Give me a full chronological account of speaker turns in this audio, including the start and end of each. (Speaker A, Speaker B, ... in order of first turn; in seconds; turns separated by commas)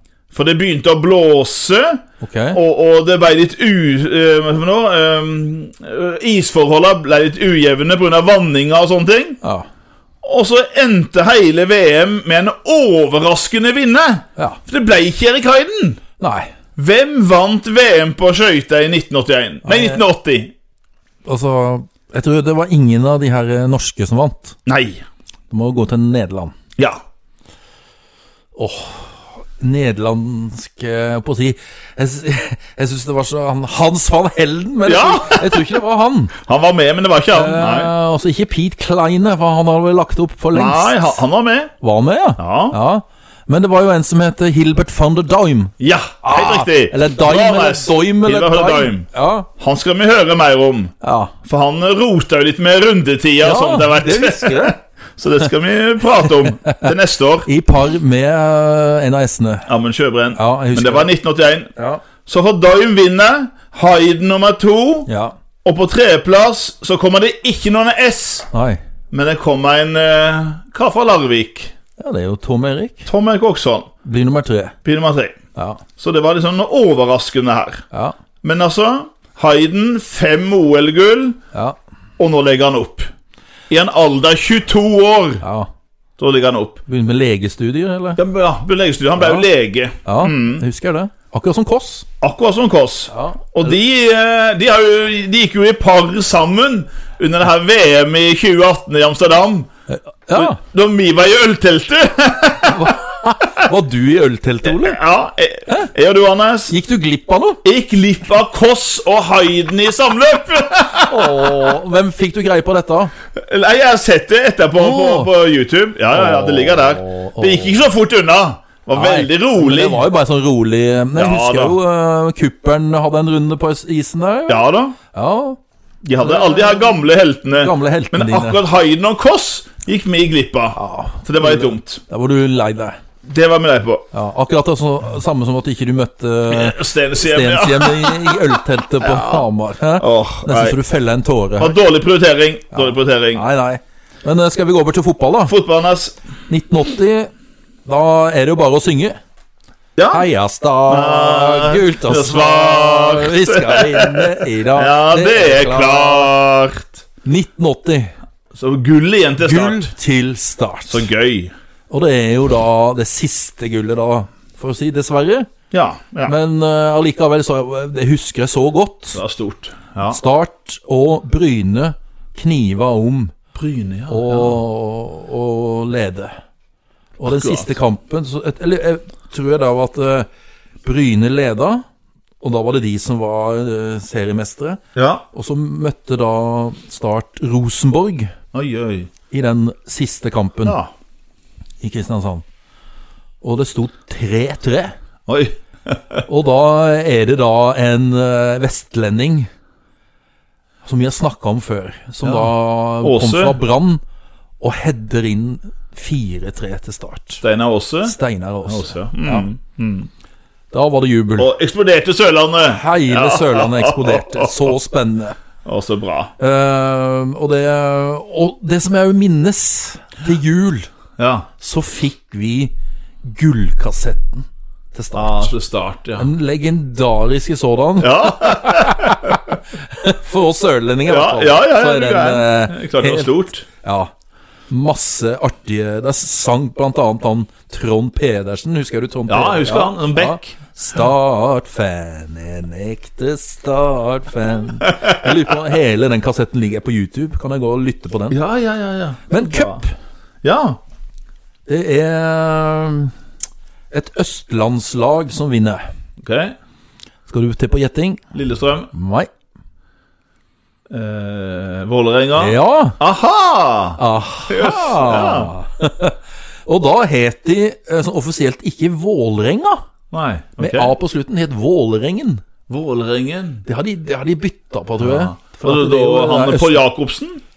Speaker A: 0.3-2.0, Speaker B: 2.2-2.6, Speaker A: 2.5-9.4, Speaker A: 10.2-16.0, Speaker B: 16.2-16.5, Speaker A: 16.8-20.5, Speaker B: 19.6-20.0, Speaker B: 21.2-24.6, Speaker A: 24.6-25.0, Speaker B: 25.5-26.5, Speaker B: 28.6-36.3, Speaker A: 34.8-35.7, Speaker A: 36.4-37.9, Speaker B: 37.3-41.2, Speaker A: 40.5-41.7, Speaker B: 41.8-49.5, Speaker A: 42.4-42.8, Speaker A: 45.8-49.1, Speaker A: 49.6-57.5, Speaker B: 51.0-51.3, Speaker B: 53.4-54.8, Speaker B: 57.5-59.7, Speaker A: 59.7-61.7, Speaker B: 60.3-61.1, Speaker B: 61.8-62.0, Speaker A: 62.2-65.1, Speaker B: 65.1-65.3, Speaker A: 65.6-68.5, Speaker B: 68.5-68.8, Speaker A: 69.1-71.7, Speaker B: 72.0-73.1, Speaker A: 73.0-73.9, Speaker B: 74.0-74.8, Speaker A: 74.8-75.4, Speaker B: 75.5-75.8, Speaker A: 76.0-77.8, Speaker A: 78.4-81.4, Speaker A: 82.2-83.1, Speaker A: 83.7-85.4, Speaker B: 85.4-85.7, Speaker A: 86.2-86.8, Speaker B: 86.9-88.2, Speaker A: 88.2-90.7, Speaker B: 89.2-89.5, Speaker B: 90.0-92.1, Speaker A: 92.2-99.7, Speaker B: 93.1-93.7, Speaker B: 99.9-100.6, Speaker A: 100.3-103.0, Speaker B: 102.6-105.0, Speaker A: 104.6-106.7, Speaker B: 106.7-107.6, Speaker A: 107.6-111.7, Speaker B: 111.1-113.1, Speaker A: 113.3-120.0, Speaker B: 114.8-115.3, Speaker B: 116.1-117.8, Speaker B: 118.9-125.6, Speaker A: 121.2-121.8, Speaker A: 124.5-125.0, Speaker A: 126.0-132.0, Speaker B: 126.2-126.9, Speaker B: 127.6-128.6, Speaker B: 130.7-133.0, Speaker A: 133.2-134.0, Speaker B: 134.1-141.8, Speaker A: 136.5-139.4, Speaker A: 140.0-140.8, Speaker A: 141.6-143.4, Speaker B: 142.7-145.5, Speaker A: 145.5-146.2, Speaker B: 146.5-147.3, Speaker B: 147.8-149.2, Speaker A: 150.0-150.2, Speaker B: 150.1-156.3, Speaker A: 150.9-157.0, Speaker B: 157.2-158.1, Speaker A: 158.5-159.9, Speaker B: 159.4-161.0, Speaker A: 160.9-161.5, Speaker B: 161.9-165.5, Speaker A: 165.7-166.3, Speaker B: 166.2-169.2, Speaker A: 169.1-170.2, Speaker B: 170.1-173.3, Speaker A: 173.5-174.6, Speaker B: 174.1-176.3, Speaker B: 177.2-180.3, Speaker A: 177.3-177.7, Speaker B: 180.8-181.8, Speaker B: 182.4-184.8, Speaker A: 184.9-185.2, Speaker B: 185.3-188.3, Speaker A: 188.5-189.1, Speaker B: 189.3-190.8, Speaker A: 190.6-190.9, Speaker B: 191.8-192.4, Speaker B: 193.4-194.9, Speaker A: 195.3-196.2, Speaker B: 196.3-199.5, Speaker B: 200.8-204.0, Speaker A: 202.2-203.6, Speaker B: 204.6-207.4, Speaker A: 207.4-210.1, Speaker B: 208.0-209.5, Speaker B: 210.7-211.5, Speaker A: 211.4-214.7, Speaker B: 212.6-215.4, Speaker A: 215.6-216.3, Speaker B: 216.4-220.9, Speaker A: 221.2-221.5, Speaker B: 221.6-222.7, Speaker B: 223.2-225.5, Speaker A: 225.1-226.3, Speaker B: 226.2-234.1, Speaker A: 228.0-229.4, Speaker A: 231.1-233.6, Speaker B: 234.7-248.4, Speaker A: 239.3-240.6, Speaker A: 248.3-249.8, Speaker B: 249.3-249.9, Speaker A: 250.4-250.8, Speaker B: 251.7-253.1, Speaker B: 253.9-255.8, Speaker A: 256.2-256.6, Speaker B: 257.3-258.2, Speaker A: 258.3-258.9, Speaker B: 258.9-259.3, Speaker A: 260.9-265.5, Speaker B: 262.4-263.0, Speaker B: 264.0-269.8, Speaker A: 270.1-270.9, Speaker B: 270.6-272.4, Speaker A: 272.7-273.6, Speaker B: 273.6-276.8, Speaker A: 275.0-277.4